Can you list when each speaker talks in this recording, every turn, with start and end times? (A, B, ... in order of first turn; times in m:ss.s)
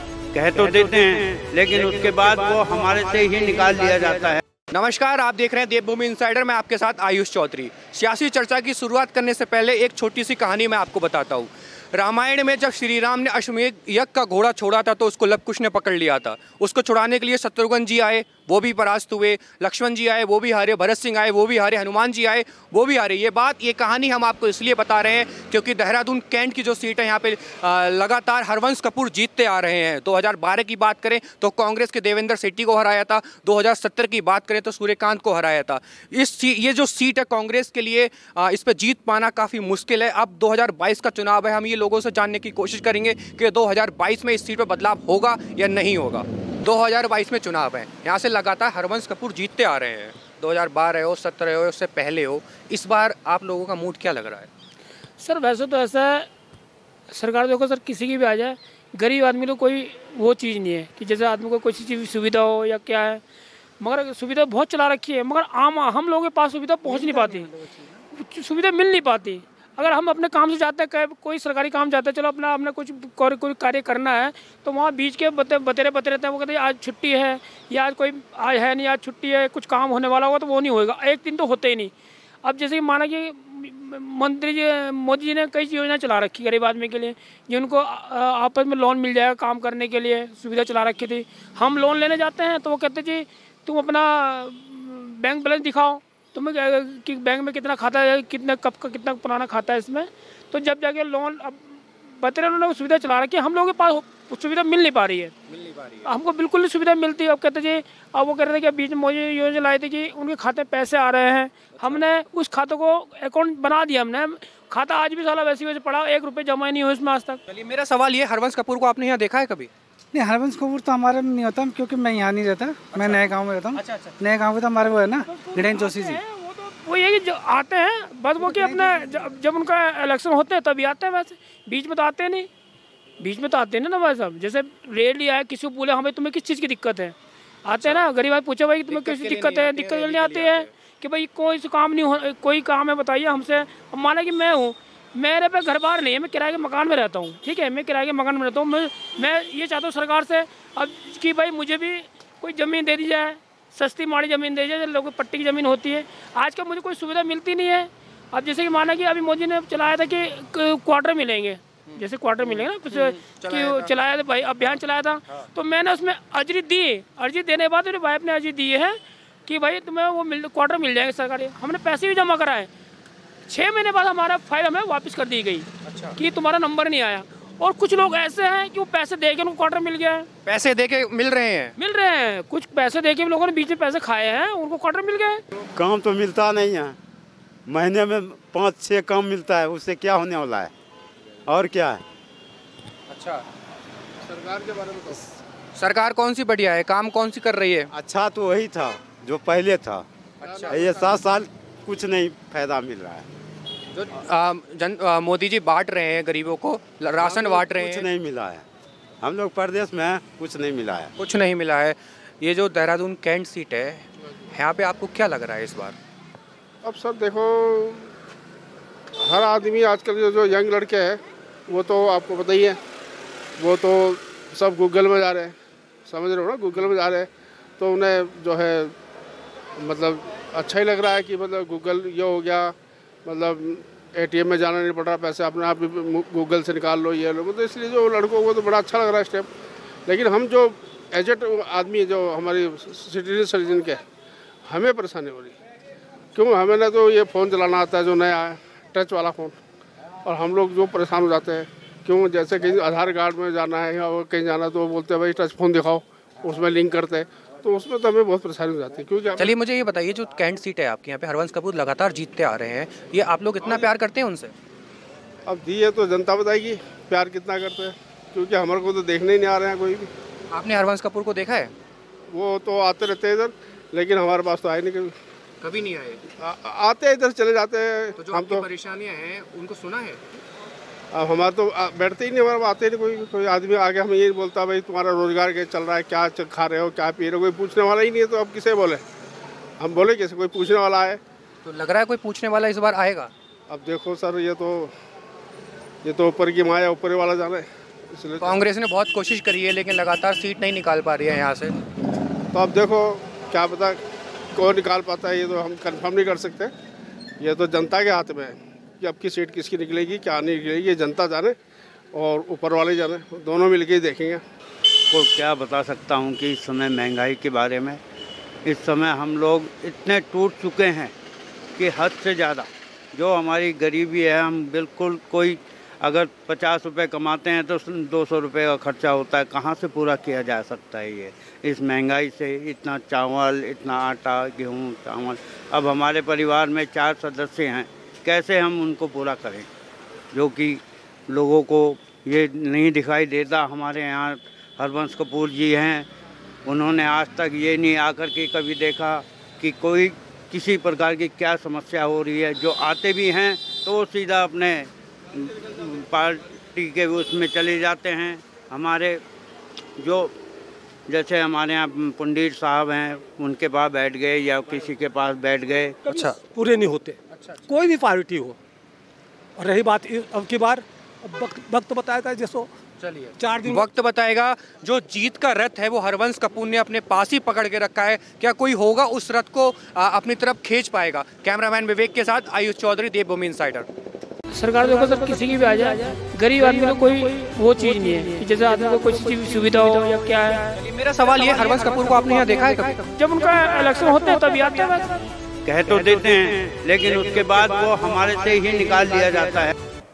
0:00.3-0:04.4 A
0:01.8-0:04.3 B
0:04.7-0:54.5 C
0:55.2-0:56.3 D
0:57.1-1:03.2 D
1:03.8-1:07.5 D
1:06.9-1:07.9 E
1:08.1-1:21.9 D
1:22.4-1:45.3 D
1:45.5-1:46.0 C
1:46.0-1:57.4 D
1:57.5-1:59.7 C
2:00.1-2:06.2 E
2:03.0-2:03.2 C
2:03.8-2:04.1 C
2:05.2-2:12.5 D
2:08.4-2:09.3 E
2:13.2-2:52.7 D
2:18.9-2:20.7 C
2:41.9-2:43.9 C
2:53.5-3:00.3 D
2:55.9-2:56.2 C
3:00.4-3:01.8 C
3:01.8-3:05.4 D
3:05.8-3:07.0 B
3:07.7-3:10.7 B
3:11.5-3:12.0 B
3:13.1-3:13.4 C
3:14.2-3:15.2 F
3:15.8-3:17.9 C
3:17.9-3:20.0 B
3:20.4-3:20.8 C
3:20.4-3:21.2 F
3:20.7-3:23.3 B
3:23.9-3:28.1 C
3:27.2-3:27.7 F
3:27.8-3:28.6 B
3:29.2-3:31.1 B
3:31.2-3:36.0 C
3:36.8-3:38.1 F
3:39.2-3:42.8 F
3:43.6-3:45.5 F
3:46.1-3:48.9 F
3:49.8-3:52.7 F
3:53.2-3:59.5 F
4:00.1-4:04.0 F
4:04.7-4:05.6 F
4:06.4-4:09.6 F
4:10.2-4:19.5 F
4:19.4-4:24.5 C
4:25.5-4:30.1 F
4:30.5-4:31.7 C
4:32.3-4:35.1 F
4:35.6-4:36.2 C
4:36.4-4:38.7 F
4:38.2-4:40.2 C
4:41.1-4:49.0 F
4:49.8-4:51.2 F
4:51.6-4:53.3 C
4:53.7-4:54.9 F
4:56.0-4:58.6 F
4:58.4-5:01.8 C
5:02.5-5:04.0 F
5:04.6-5:06.7 F
5:07.4-5:11.6 F
5:12.1-5:14.4 F
5:15.1-5:18.0 A
5:18.6-5:21.1 A
5:21.8-5:39.7 A
5:40.3-5:46.1 A
5:46.7-5:59.2 A
6:00.0-6:00.3 A
6:01.1-6:06.0 A
6:06.1-6:08.6 G
6:06.1-6:06.4 C
6:07.4-6:07.7 C
6:09.6-6:12.7 G
6:13.0-6:23.9 C
6:13.4-6:13.9 G
6:24.5-6:30.8 D
6:30.8-6:33.0 C
6:33.2-6:35.1 D
6:35.7-6:39.7 A